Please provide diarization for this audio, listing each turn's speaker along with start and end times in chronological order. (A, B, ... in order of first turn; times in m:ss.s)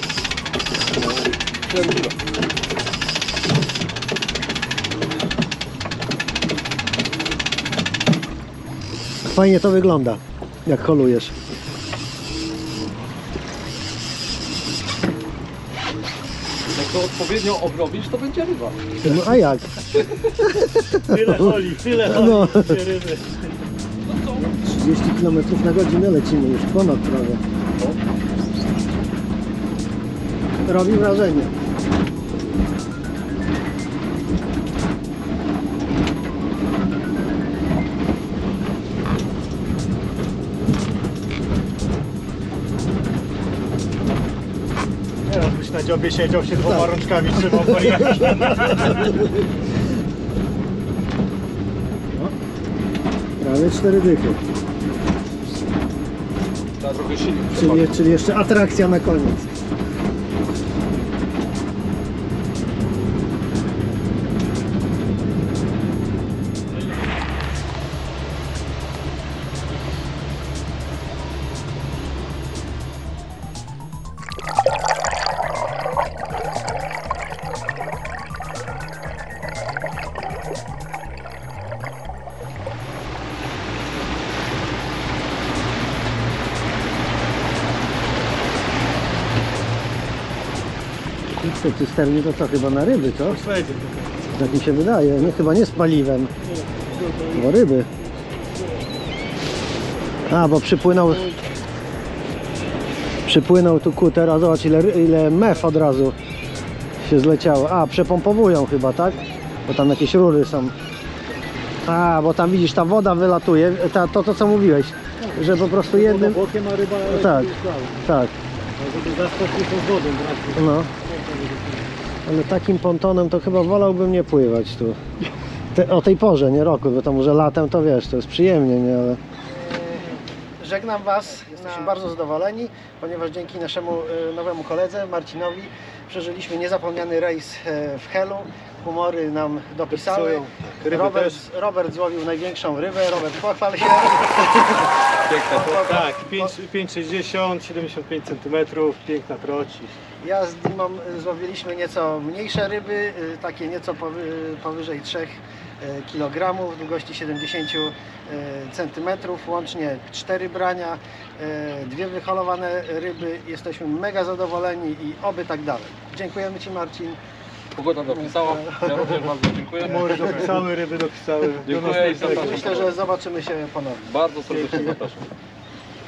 0:00.9-0:02.2 A
0:09.2-0:11.3 B
0:16.7-0:18.8 A
0:19.0-0:19.7 B
0:19.9-0:20.5 A
0:20.5-0:22.8 B
0:21.0-0:23.4 C
0:24.0-0:24.6 A
0:24.4-0:27.4 B
0:30.6-0:31.5 B
0:45.2-0:49.2 C
0:46.5-0:48.3 B
0:53.4-0:54.4 B
0:56.8-0:57.9 A
0:57.5-0:59.5 B
1:31.4-1:33.4 B
1:32.9-1:34.4 C
1:34.4-1:36.3 B
1:36.4-1:37.6 C
1:37.3-1:37.9 B
1:40.3-1:41.3 B
1:43.2-1:46.1 B
1:47.0-1:50.7 B
1:51.8-1:56.4 B
1:55.2-1:58.1 C
1:57.0-1:57.5 B
1:58.0-1:58.3 B
1:58.8-2:01.9 C
2:00.6-2:00.9 B
2:02.2-2:05.0 B
2:05.7-2:09.2 B
2:09.7-2:10.2 C
2:10.6-2:24.9 B
2:11.5-2:11.9 C
2:19.9-2:21.4 C
2:25.2-2:25.9 A
2:25.6-2:26.5 B
2:25.6-2:30.0 C
2:30.2-2:47.2 B
2:47.8-2:50.4 A
2:48.2-2:49.2 B
2:49.8-2:52.8 C
2:51.6-2:53.0 A
2:52.1-2:54.1 B
2:54.0-2:55.2 A
2:54.5-2:54.9 C